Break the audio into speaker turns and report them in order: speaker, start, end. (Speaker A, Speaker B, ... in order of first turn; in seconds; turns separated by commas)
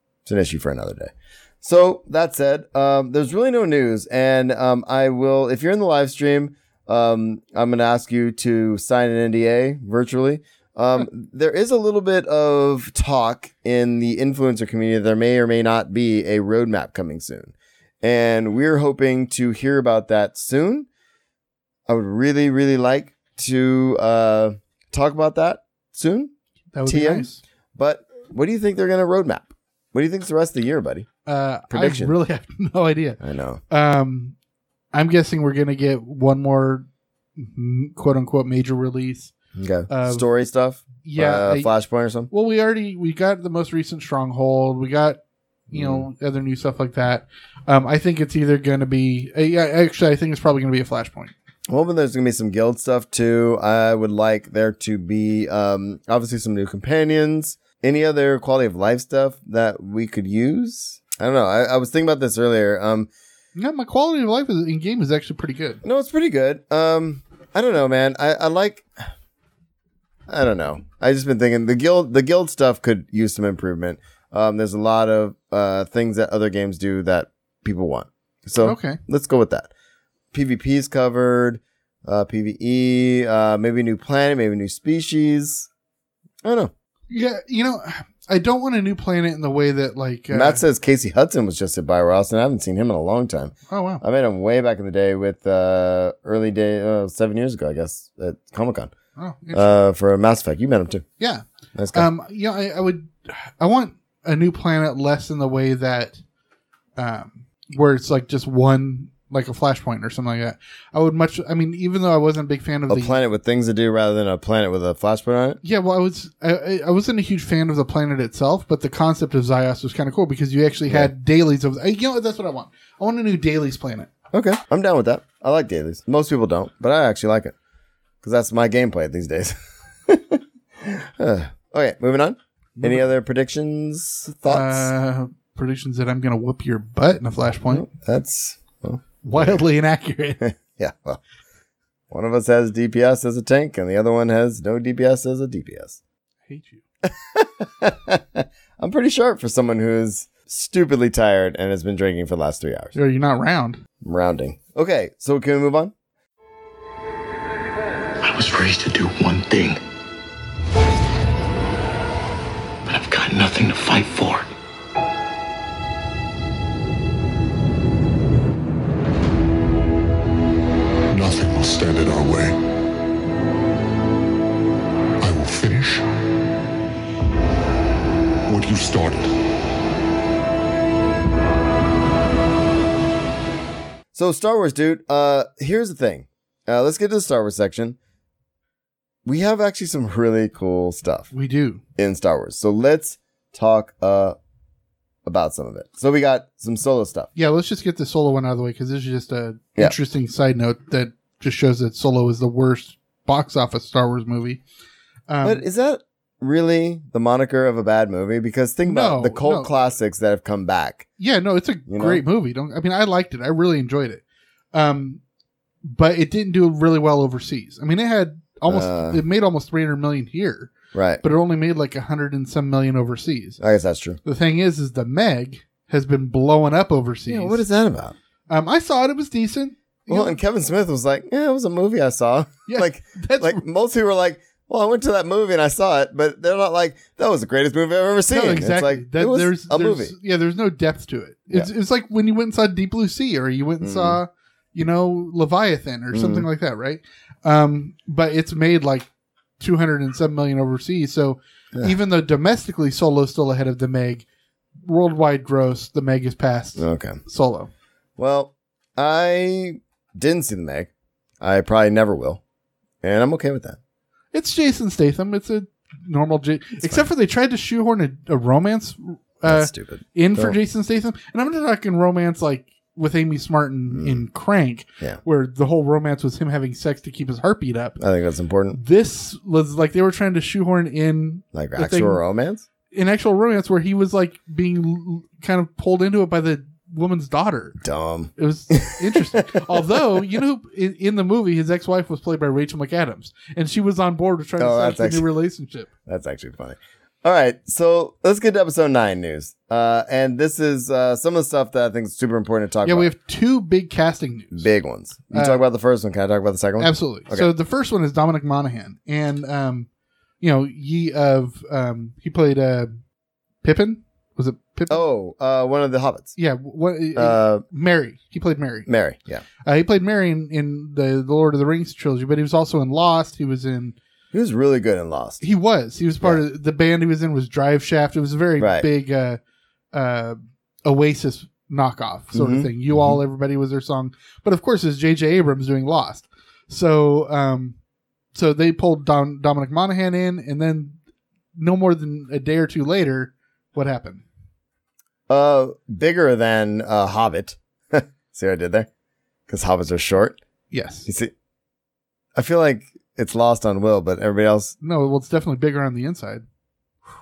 Speaker A: 0.2-20.9, Speaker A: 21.9-26.3, Speaker B: 26.7-27.4, Speaker A: 26.8-31.1, Speaker B: 31.2-34.3, Speaker A: 31.7-32.1, Speaker A: 33.2-33.6, Speaker B: 34.9-36.9, Speaker B: 37.4-39.3, Speaker A: 39.5-42.3, Speaker B: 39.9-40.2, Speaker B: 41.0-41.7, Speaker B: 42.3-51.3, Speaker A: 45.7-46.0, Speaker A: 51.7-63.1, Speaker B: 63.5-65.8, Speaker A: 65.8-68.9, Speaker A: 70.3-79.7, Speaker B: 78.6-79.0, Speaker A: 80.3-85.7, Speaker A: 86.4-86.7, Speaker B: 87.1-90.6, Speaker A: 90.3-98.9, Speaker B: 93.7-94.0, Speaker B: 99.2-99.8, Speaker A: 99.5-101.0, Speaker B: 101.2-106.2, Speaker A: 101.7-102.1, Speaker B: 107.0-113.2, Speaker A: 112.9-115.6, Speaker B: 115.6-124.1, Speaker A: 124.3-127.5, Speaker A: 128.2-129.5, Speaker A: 130.1-134.9, Speaker B: 132.8-133.1, Speaker B: 134.5-137.8, Speaker A: 137.7-139.6, Speaker B: 139.2-140.4, Speaker A: 140.4-141.2, Speaker A: 142.1-146.0, Speaker B: 146.5-146.8, Speaker A: 147.0-152.9, Speaker B: 152.9-153.8, Speaker A: 154.0-155.9, Speaker C: 158.2-159.8, Speaker C: 162.8-164.5, Speaker D: 171.1-172.5, Speaker D: 175.2-176.0, Speaker D: 178.5-179.3, Speaker A: 184.1-188.0, Speaker A: 189.2-191.3, Speaker B: 191.3-191.8, Speaker A: 191.9-194.4, Speaker A: 195.2-197.3, Speaker B: 197.3-204.6, Speaker B: 205.3-205.6, Speaker A: 205.4-211.1, Speaker B: 208.8-209.7, Speaker B: 211.2-214.2, Speaker A: 211.9-212.2, Speaker B: 214.7-215.2, Speaker B: 215.8-223.6, Speaker A: 218.7-219.2, Speaker A: 220.9-221.2, Speaker A: 223.6-224.2, Speaker B: 224.2-227.6, Speaker A: 227.3-228.1, Speaker B: 228.5-230.4, Speaker A: 230.1-240.1, Speaker B: 232.7-233.6, Speaker B: 238.3-249.1, Speaker A: 243.8-244.2, Speaker A: 246.1-246.5, Speaker B: 249.6-254.2, Speaker B: 254.8-257.7, Speaker A: 256.8-257.2, Speaker A: 258.2-260.9, Speaker A: 261.4-262.4, Speaker A: 263.0-263.8, Speaker B: 264.3-278.0, Speaker A: 266.8-267.1, Speaker A: 269.4-270.6, Speaker A: 273.9-274.2, Speaker A: 278.0-278.8, Speaker B: 278.7-282.2, Speaker A: 281.5-282.6, Speaker B: 282.9-287.8, Speaker A: 287.8-290.4, Speaker B: 288.4-295.9, Speaker A: 294.6-295.3, Speaker A: 296.1-303.1, Speaker B: 302.8-304.6, Speaker A: 304.5-307.5, Speaker B: 305.3-305.6, Speaker B: 306.8-309.9, Speaker B: 310.4-312.9, Speaker B: 313.6-315.0, Speaker A: 314.9-316.3, Speaker B: 316.4-318.9, Speaker A: 317.1-317.6, Speaker A: 318.9-319.4, Speaker B: 319.6-323.9, Speaker A: 324.3-325.4, Speaker B: 325.4-329.4, Speaker A: 328.6-328.9, Speaker B: 329.9-337.8, Speaker A: 332.3-333.2, Speaker B: 338.3-341.0, Speaker B: 341.5-344.2, Speaker A: 345.3-348.9, Speaker A: 349.5-350.4, Speaker B: 350.7-351.1, Speaker A: 351.1-351.3, Speaker A: 352.3-354.7, Speaker B: 354.8-356.4